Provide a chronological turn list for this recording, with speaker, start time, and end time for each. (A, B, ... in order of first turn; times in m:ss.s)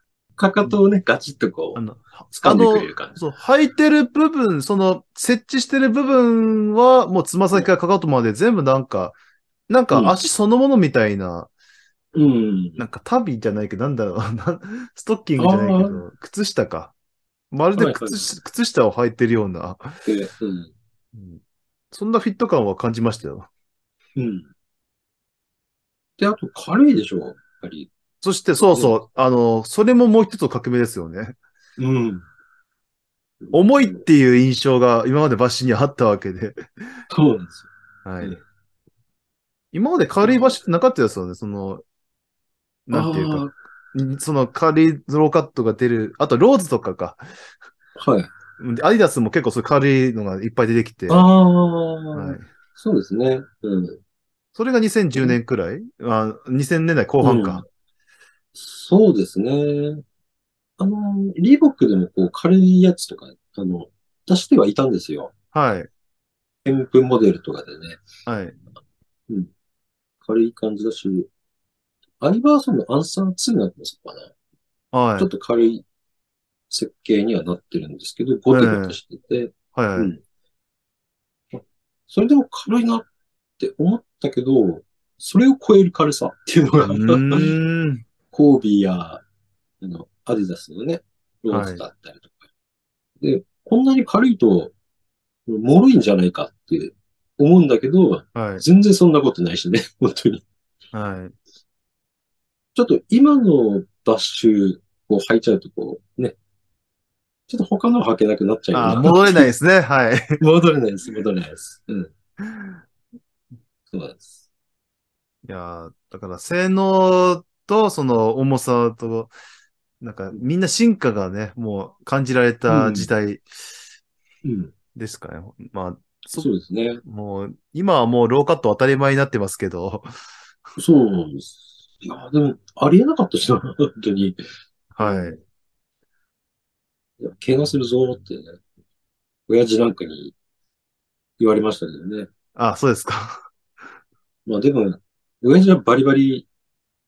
0:00.4-0:01.8 A
0:01.8-0:09.2 B
0:02.4-0:03.2 A
0:09.7-0:11.5 B
0:09.9-0:10.2 A
0:12.1-0:12.8 A
0:12.8-0:16.9 B
0:15.4-0:16.0 A
0:17.5-0:20.0 B
0:17.8-0:18.3 A
0:20.1-0:20.7 A
0:21.1-0:21.4 B
0:21.9-0:23.5 B
0:24.2-0:24.5 A
0:26.2-0:27.9 A
0:28.2-0:31.4 B
0:31.8-0:32.3 A
0:33.4-0:34.0 A
0:33.5-0:36.6 B
0:37.1-0:37.7 A
0:38.0-0:38.4 B
0:39.7-0:41.8 B
0:40.2-0:40.6 A
0:42.9-0:47.2 B
0:42.9-0:43.5 A
0:48.0-0:48.3 A
0:48.6-0:51.3 B
0:51.1-0:54.0 A
0:52.1-0:52.5 B
0:54.6-0:57.6 B
0:57.2-0:57.6 A
0:58.6-1:00.0 A
1:00.8-1:05.3 A
1:05.5-1:05.9 B
1:06.6-1:08.0 A
1:08.3-1:08.6 B
1:10.2-1:11.3 A
1:12.2-1:14.3 A
1:14.9-1:15.3 B
1:15.2-1:15.8 A
1:16.7-1:20.2 A
1:18.5-1:19.0 B
1:19.7-1:20.1 B
1:21.5-1:23.1 A
1:23.6-1:27.5 A
1:26.8-1:28.0 B
1:28.3-1:29.2 A
1:29.8-1:32.4 A
1:31.5-1:31.8 B
1:33.2-1:34.7 A
1:35.5-1:40.4 A
1:38.4-1:38.6 B
1:40.9-1:41.3 B
1:42.8-1:46.4 A
1:47.5-1:49.5 A
1:48.7-1:50.4 B
1:50.4-1:52.1 A
1:53.9-1:54.3 A
1:55.4-1:59.3 B
2:00.0-2:03.4 B
2:02.7-2:03.1 A
2:04.4-2:04.7 A
2:05.0-2:06.5 B
2:06.4-2:07.0 A
2:07.0-2:10.1 B
2:10.8-2:14.4 A
2:14.9-2:15.4 B
2:15.0-2:15.4 A
2:17.2-2:18.6 A
2:19.5-2:20.3 A
2:21.4-2:22.3 A
2:22.6-2:23.4 B
2:24.5-2:26.5 A